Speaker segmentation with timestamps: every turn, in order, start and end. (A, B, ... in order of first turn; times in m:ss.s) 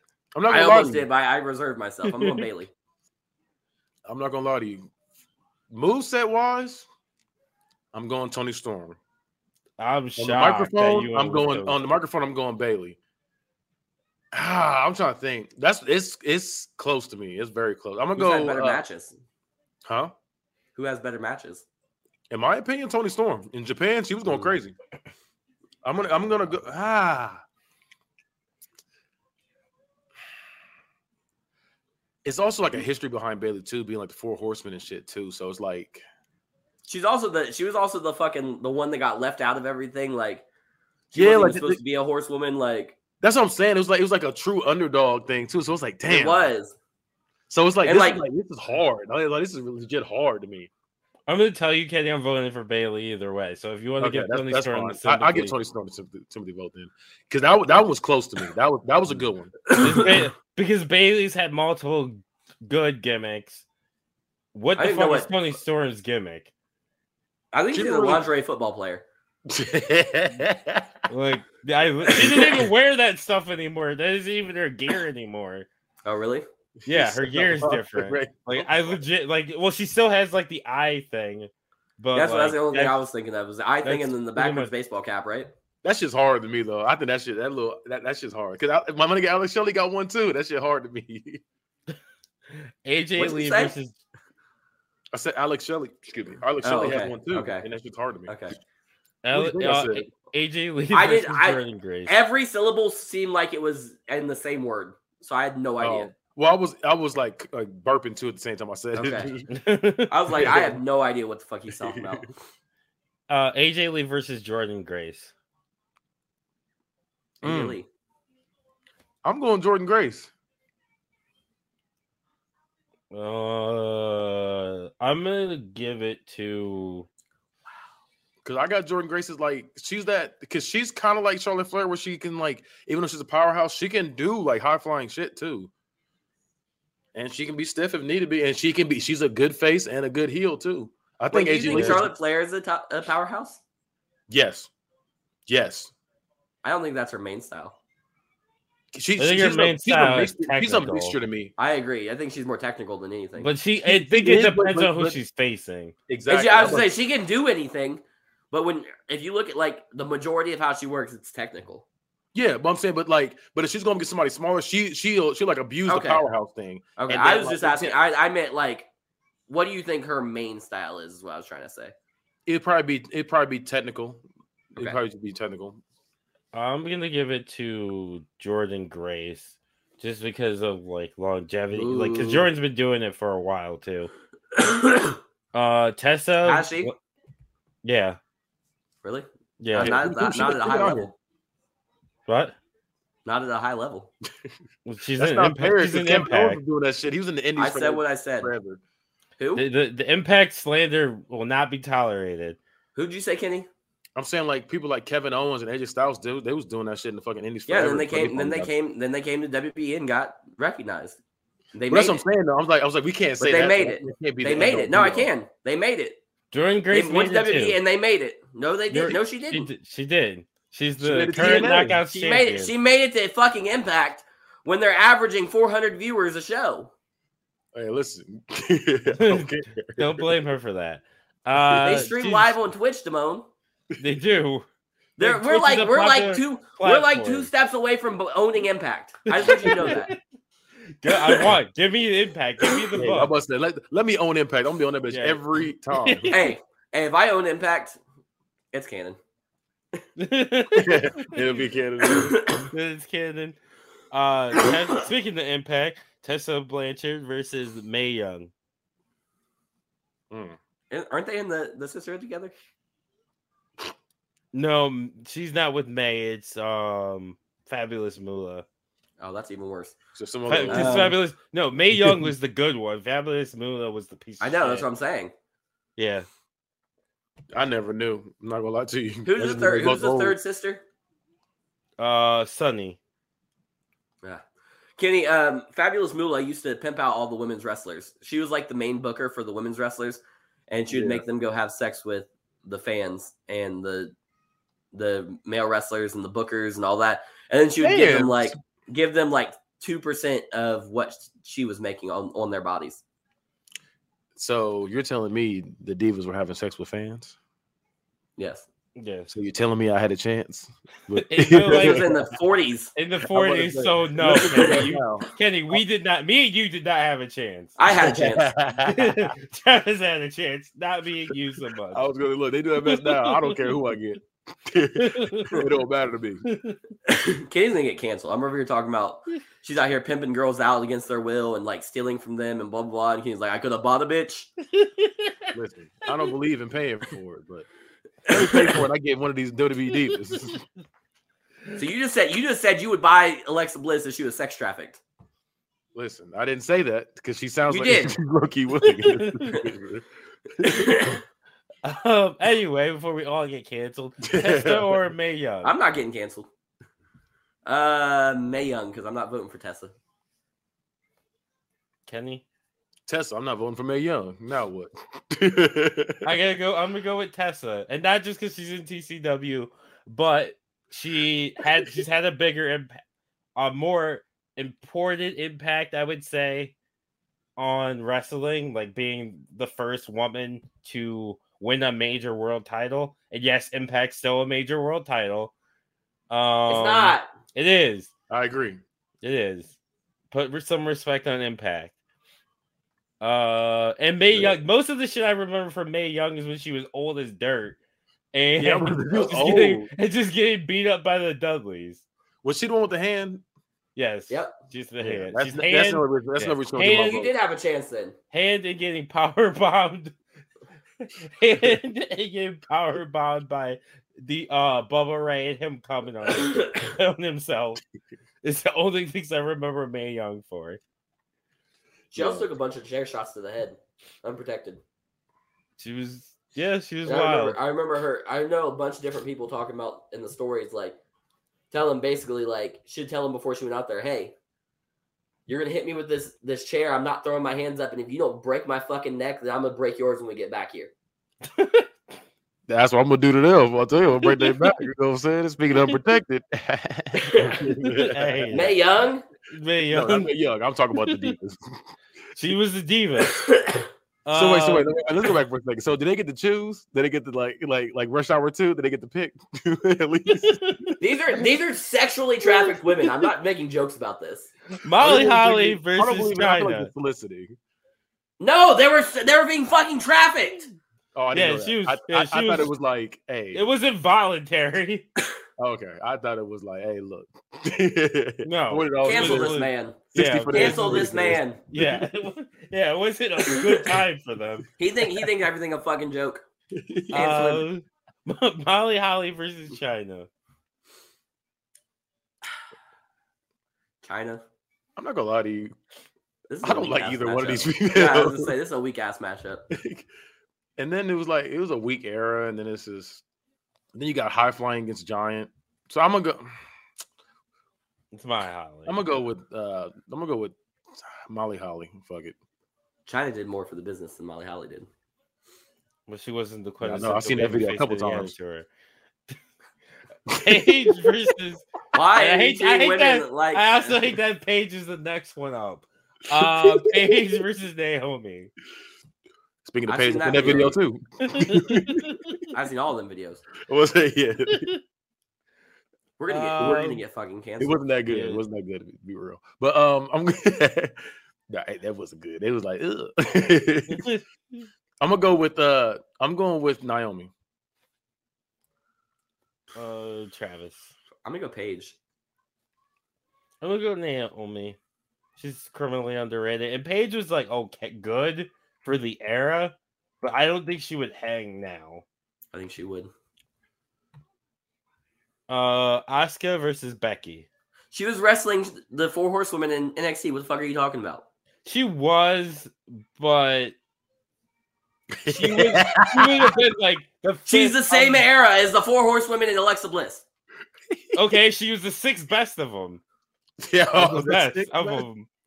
0:00.3-0:01.0 A
0:00.5-0:02.7 B
0:02.0-0:02.4 C
0:04.0-0:04.8 A
0:05.7-0:06.8 A
0:07.9-0:09.0 A
0:09.8-0:11.8 C
0:10.2-0:13.0 A
0:14.3-0:18.8 A
0:18.2-0:19.1 B
0:19.8-0:20.1 A
0:20.8-0:21.6 B
0:22.3-0:24.7 A
0:24.2-0:24.5 B
0:25.8-0:27.4 A
0:32.2-0:36.0 A
0:36.9-0:40.4 B
0:41.1-0:43.0 B
0:41.1-0:41.8 A
0:43.2-0:46.5 A
0:46.0-0:46.7 B
0:47.5-0:50.7 A
0:47.8-0:48.2 B
0:51.3-0:55.5 C
0:54.0-0:59.6 A
0:59.7-1:00.2 B
0:59.7-1:03.6 C
1:04.5-1:06.5 C
1:04.8-1:05.3 B
1:07.5-1:09.0 B
1:07.7-1:08.2 A
1:09.5-1:10.9 A
1:11.1-1:15.7 C
1:16.0-1:16.4 B
1:16.8-1:18.7 A
1:16.9-1:23.0 C
1:22.1-1:25.5 B
1:23.8-1:24.7 C
1:25.8-1:31.4 A
1:32.5-1:34.0 C
1:33.2-1:33.7 B
1:35.1-1:38.5 A
1:36.6-1:37.7 B
1:38.3-1:38.6 B
1:39.2-1:42.1 C
1:39.3-1:40.1 A
1:40.9-1:46.1 B
1:45.8-1:49.5 A
1:48.9-1:49.3 B
1:49.5-1:50.6 C
1:50.1-1:52.3 B
1:50.3-1:50.7 A
1:51.7-1:52.2 A
1:53.3-1:55.3 C
1:57.4-1:57.9 B
1:57.4-1:57.8 A
1:59.2-2:00.3 A
2:03.1-2:07.1 C
2:08.4-2:15.7 A
2:17.1-2:22.1 A
2:21.3-2:23.6 B
2:21.7-2:22.1 C
2:24.3-2:24.7 A
2:25.5-2:25.9 A
2:26.6-2:27.7 B
2:28.9-2:31.5 A
2:29.2-2:31.2 C
2:31.6-2:33.5 B
2:33.4-2:35.9 C
2:33.8-2:35.2 A
2:36.1-2:36.9 A
2:36.3-2:41.8 B
2:42.3-2:48.0 A
2:45.9-2:46.2 B
2:47.0-2:48.9 B
2:49.5-2:51.9 B
2:52.4-2:54.2 A
2:54.7-2:55.8 A
2:56.5-3:04.1 C
3:01.7-3:02.5 B
3:04.5-3:05.2 B
3:05.5-3:06.9 C
3:06.4-3:06.9 B
3:07.8-3:08.2 C
3:09.0-3:11.1 B
3:09.6-3:10.0 C
3:09.7-3:11.1 A
3:12.3-3:12.5 C
3:13.2-3:14.1 B
3:14.8-3:16.6 C
3:15.2-3:18.8 A
3:17.6-3:18.5 B
3:19.4-3:19.6 B
3:19.6-3:22.6 C
3:22.9-3:23.7 B
3:24.2-3:28.7 A
3:27.7-3:31.2 B
3:31.7-3:32.2 B
3:31.9-3:35.3 A
3:33.4-3:36.2 B
3:36.5-3:37.8 C
3:36.9-3:39.7 B
3:38.9-3:42.7 C
3:41.0-3:42.0 A
3:41.4-3:46.9 B
3:47.7-3:50.2 A
3:49.2-3:52.6 C
3:51.8-3:53.5 B
3:54.0-3:54.6 C
3:55.2-4:00.1 B
3:55.2-3:57.5 C
3:59.3-4:00.2 C
4:01.0-4:03.3 C
4:03.0-4:06.3 A
4:05.1-4:06.6 C
4:06.3-4:08.0 B
4:08.7-4:09.2 B
4:10.2-4:11.4 C
4:10.7-4:12.7 A
4:12.0-4:12.6 B
4:12.7-4:13.6 C
4:14.1-4:18.5 C
4:20.3-4:20.6 A
4:20.9-4:22.5 B
4:24.5-4:28.6 C
4:29.2-4:30.0 B
4:30.1-4:31.2 A
4:30.5-4:34.8 C
4:30.7-4:31.1 B
4:31.9-4:32.3 A
4:34.4-4:35.3 B
4:36.0-4:36.3 C
4:37.5-4:40.4 A
4:39.2-4:40.8 B
4:42.0-4:43.0 C
4:45.0-4:54.1 B
4:50.9-4:51.2 A
4:54.9-5:03.0 B
4:57.8-4:58.6 A
5:04.4-5:07.3 A
5:08.4-5:08.6 B
5:09.0-5:09.3 C
5:09.3-5:12.3 A
5:11.2-5:12.1 C
5:11.6-5:12.9 B
5:12.9-5:17.7 C
5:13.3-5:15.8 A
5:17.8-5:18.5 B
5:17.9-5:19.3 A
5:18.8-5:22.0 C
5:21.9-5:26.4 A
5:22.8-5:23.6 C
5:25.0-5:25.6 C
5:26.4-5:26.8 C
5:27.1-5:34.5 B
5:34.7-5:35.5 C
5:35.5-5:37.7 A
5:38.3-5:40.6 A
5:41.8-5:45.0 B
5:45.9-5:50.0 A
5:47.7-5:48.1 B
5:48.9-5:49.6 C
5:50.6-5:51.1 A
5:50.6-5:51.2 B
5:51.8-5:55.7 C
5:54.2-5:55.0 A
5:55.6-5:56.5 B
5:57.6-5:59.9 B
6:02.1-6:02.4 C
6:03.1-6:06.2 A
6:06.2-6:13.0 C
6:13.6-6:16.7 C
6:17.6-6:25.5 C
6:26.3-6:28.1 C
6:26.7-6:27.3 B
6:28.3-6:28.8 A
6:29.2-6:29.7 C
6:30.3-6:31.9 C
6:33.2-6:37.8 C
6:34.3-6:34.6 A
6:38.3-6:42.0 C
6:38.6-6:39.9 A
6:42.4-6:43.4 A
6:44.0-6:47.2 C
6:45.0-6:47.3 A
6:47.0-6:48.2 B
6:48.3-6:50.1 C
6:51.0-6:57.8 C
6:56.4-6:56.7 B
6:58.4-7:00.8 C
7:02.1-7:04.8 B
7:05.8-7:07.6 C
7:07.0-7:11.0 B
7:11.7-7:14.3 B
7:15.5-7:20.9 B
7:21.5-7:21.9 C
7:22.7-7:28.6 A
7:24.2-7:24.8 C
7:27.2-7:27.6 B
7:27.8-7:28.8 C
7:28.5-7:29.2 B
7:29.5-7:30.3 C
7:29.9-7:31.6 A
7:31.0-7:31.3 C
7:32.4-7:33.4 C
7:33.2-7:33.9 B
7:34.2-7:34.9 C
7:34.3-7:40.9 A
7:40.3-7:41.0 C
7:41.0-7:44.5 B
7:44.8-7:46.9 C
7:45.0-7:47.5 A
7:48.4-7:50.7 B
7:51.1-7:53.6 A
7:51.3-7:52.7 C
7:53.5-7:55.1 C
7:55.6-7:59.6 A
7:58.4-8:04.6 C
7:59.0-8:00.0 B
8:00.1-8:02.1 A
8:00.5-8:01.6 B
8:04.8-8:06.4 B
8:05.0-8:05.2 A
8:06.7-8:07.4 A
8:07.1-8:07.6 B
8:07.1-8:10.3 C
8:14.0-8:14.4 B
8:15.0-8:15.7 A
8:16.5-8:19.6 B
8:16.6-8:18.5 A
8:19.7-8:20.0 A
8:20.8-8:23.2 A
8:23.9-8:26.5 A
8:28.1-8:29.0 C
8:28.8-8:32.4 A
8:33.0-8:34.9 B
8:36.1-8:38.7 C
8:36.8-8:38.3 A
8:40.3-8:41.1 A
8:40.4-8:48.5 C
8:41.9-8:44.1 B
8:46.4-8:47.2 A
8:49.6-8:52.2 A
8:49.9-8:50.8 B
8:51.3-8:52.4 C
8:52.5-8:53.4 B
8:53.6-8:54.7 A
8:56.2-8:57.8 B
8:56.3-8:57.0 C
8:57.6-9:01.0 A
8:58.1-8:58.4 C
9:01.5-9:04.1 A
9:03.9-9:04.2 C
9:05.0-9:07.3 A
9:09.7-9:10.9 C
9:11.2-9:12.0 B
9:13.6-9:14.8 C
9:15.4-9:22.0 C
9:22.5-9:23.1 B
9:25.5-9:27.5 C
9:27.9-9:31.2 B
9:31.6-9:33.7 C
9:35.1-9:36.5 A
9:35.3-9:38.2 C
9:37.5-9:40.2 B
9:40.9-9:41.2 A
9:41.1-9:43.0 C
9:43.6-9:45.0 A
9:44.0-9:45.3 C